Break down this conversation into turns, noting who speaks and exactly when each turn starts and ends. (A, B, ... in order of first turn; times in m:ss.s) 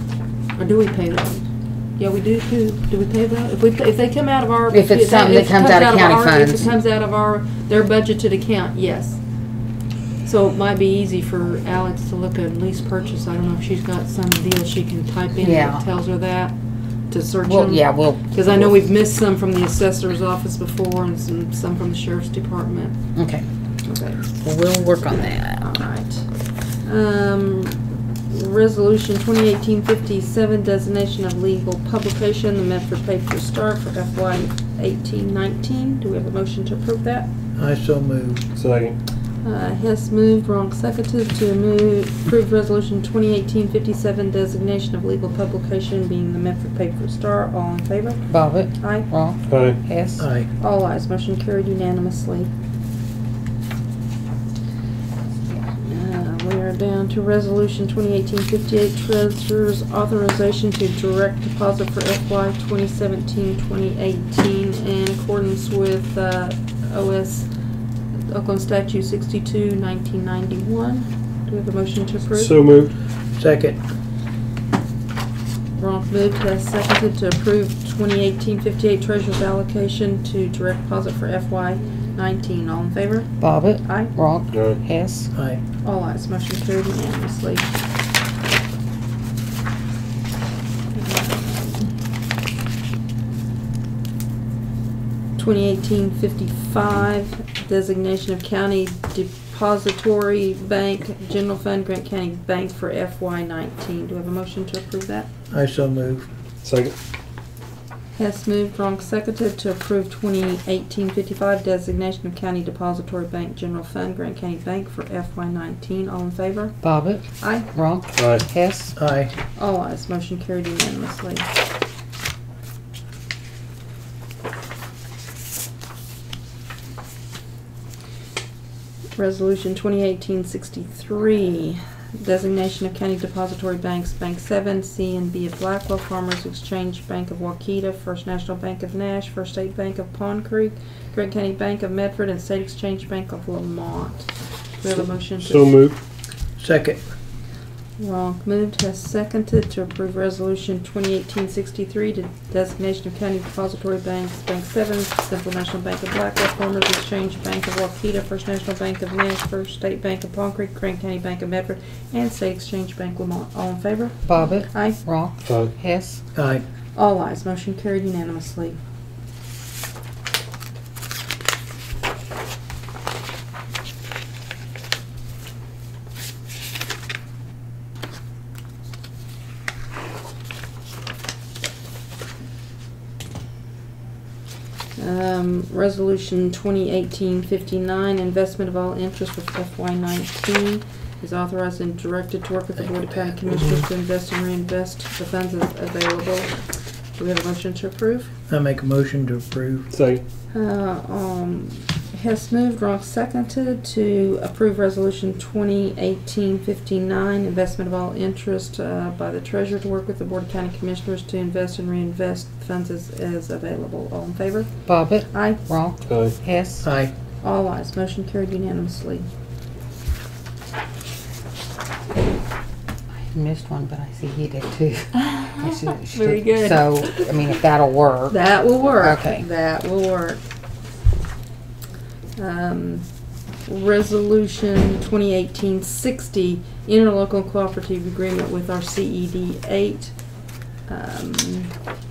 0:00.6-0:01.4 A
0:02.0-0:09.2 A
0:04.7-0:06.7 B
0:10.2-0:16.6 A
0:15.4-0:15.8 B
0:17.1-0:23.0 A
0:17.5-0:18.7 B
0:23.2-0:23.5 B
0:23.9-0:24.3 A
0:24.4-0:25.6 B
0:25.6-0:26.3 A
0:26.8-0:37.3 A
0:37.6-0:38.4 C
0:38.6-0:39.0 D
0:39.4-0:48.2 A
0:48.3-0:50.2 B
0:48.8-0:49.1 A
0:49.5-0:49.8 D
0:50.2-0:50.5 C
0:50.6-0:52.5 A
0:55.7-1:07.5 A
1:08.3-1:12.6 A
1:12.3-1:12.9 D
1:13.4-1:13.8 C
1:15.8-1:24.1 A
1:23.4-1:25.3 B
1:24.5-1:24.8 D
1:25.3-1:25.6 C
1:25.8-1:27.7 A
1:30.9-1:31.9 A
1:35.4-1:45.3 A
1:45.5-1:46.3 C
1:46.6-1:46.9 D
1:48.2-1:56.8 A
1:56.8-1:58.9 B
1:57.4-1:57.7 A
1:58.2-1:58.4 D
1:59.0-1:59.3 C
1:59.6-2:01.5 A
2:09.2-2:25.7 A
2:25.4-2:26.0 D
2:26.6-2:27.0 C
2:28.0-2:45.0 A
2:44.2-2:46.2 B
2:45.5-2:45.7 D
2:46.4-2:46.6 C
2:47.0-2:48.8 A
3:05.0-3:16.6 A
3:17.2-3:18.3 A
3:18.5-3:19.9 C
3:19.9-3:20.2 D
3:20.5-3:35.6 A
3:34.9-3:36.8 B
3:36.1-3:36.3 D
3:36.8-3:37.1 C
3:37.4-3:39.3 A
3:43.2-3:48.4 B
3:45.1-3:47.3 A
3:48.3-3:50.4 A
3:48.9-3:49.4 B
3:52.4-3:53.0 A
3:53.7-4:00.1 A
4:00.9-4:01.7 A